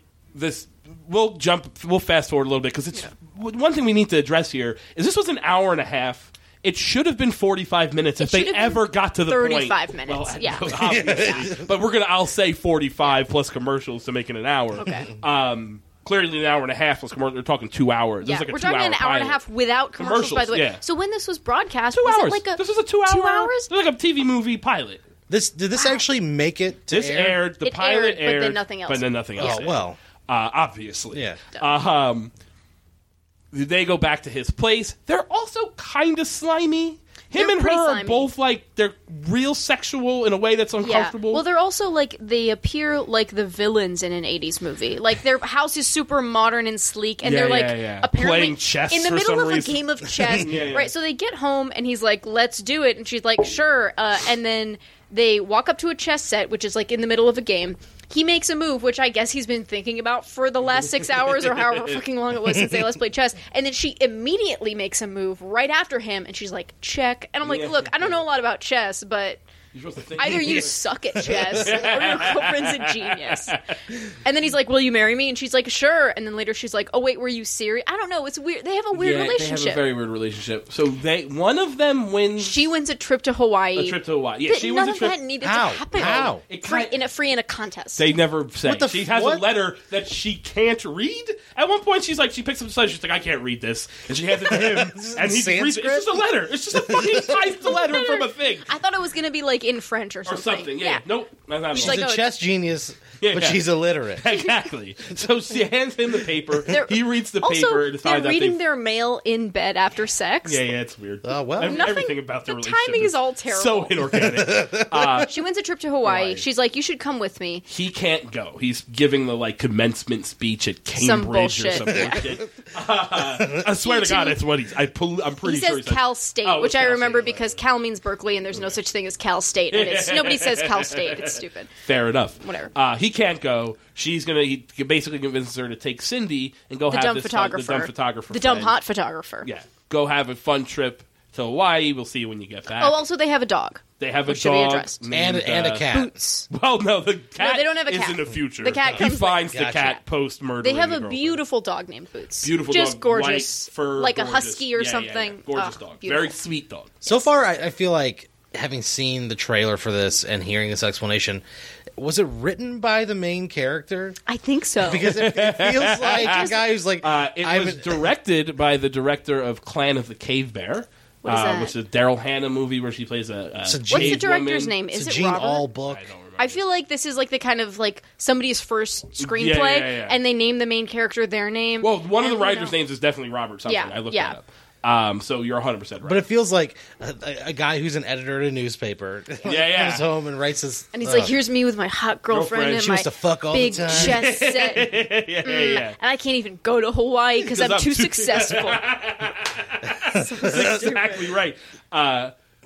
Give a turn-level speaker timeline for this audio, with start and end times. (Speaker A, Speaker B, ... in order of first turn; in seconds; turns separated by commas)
Speaker A: 0.3-19.4, Speaker B: 8.2-11.5, Speaker C: 10.8-11.7, Speaker B: 14.8-15.1, Speaker B: 18.2-23.7, Speaker A: 20.0-20.8, Speaker A: 21.9-25.0, Speaker C: 25.3-27.4, Speaker A: 26.9-32.3, Speaker B: 27.6-29.7, Speaker C: 29.4-30.0, Speaker C: 31.1-31.4, Speaker A: 33.5-41.4, Speaker B: 37.3-38.3, Speaker B: 40.8-69.4, Speaker A: 47.2-50.9, Speaker A: 67.4-68.2, Speaker A: 69.7-70.7, Speaker B: 70.2-73.6, Speaker A: 71.6-73.8, Speaker B: 74.2-79.8, Speaker A: 78.9-82.7, Speaker B: 82.4-88.0, Speaker A: 83.8-85.2, Speaker C: 85.4-86.4, Speaker A: 85.9-86.9, Speaker A: 88.0-98.7, Speaker C: 88.6-89.5, Speaker C: 94.4-97.5, Speaker B: 97.7-101.0, Speaker A: 100.3-102.0, Speaker B: 101.7-102.2, Speaker C: 101.7-104.3, Speaker A: 103.2-103.7, Speaker A: 104.2-108.6, Speaker B: 106.7-110.6, Speaker A: 110.5-115.3, Speaker C: 111.2-111.9, Speaker B: 111.6-114.0, Speaker C: 114.1-115.2, Speaker B: 115.3-117.6, Speaker A: 116.0-116.5, Speaker A: 117.7-127.6, Speaker B: 120.9-122.3, Speaker B: 123.7-124.4, Speaker B: 125.4-131.7, Speaker A: 129.7-138.8, Speaker B: 132.4-132.7, Speaker B: 136.9-139.5, Speaker A: 139.4-143.0, Speaker B: 142.8-145.0, Speaker A: 144.0-145.9, Speaker C: 145.1-146.1, Speaker B: 145.9-146.5, Speaker A: 146.5-151.4, Speaker B: 147.4-149.6, Speaker C: 148.9-150.0, Speaker B: 150.6-156.4, Speaker A: 152.4-156.9, Speaker C: 157.0-161.4, Speaker C: 162.0-164.2, Speaker B: 164.3-165.1, Speaker C: 164.8-168.1, Speaker A: 164.9-174.8, Speaker B: 166.0-166.6, Speaker B: 171.2-171.8, Speaker C: 173.7-174.2, Speaker B: 173.9-175.7, Speaker C: 174.9-176.1, Speaker A: 175.9-176.6, Speaker B: 176.4-182.7, Speaker A: 179.2-180.2, Speaker A: 181.8-186.2, Speaker B: 183.7-184.4, Speaker C: 186.0-191.3, Speaker A: 189.4-190.1, Speaker B: 190.9-198.8, Speaker A: 192.3-192.9, Speaker C: 192.8-194.3, Speaker A: 193.8-196.0, Speaker A: 197.4-202.3, Speaker B: 200.1-201.3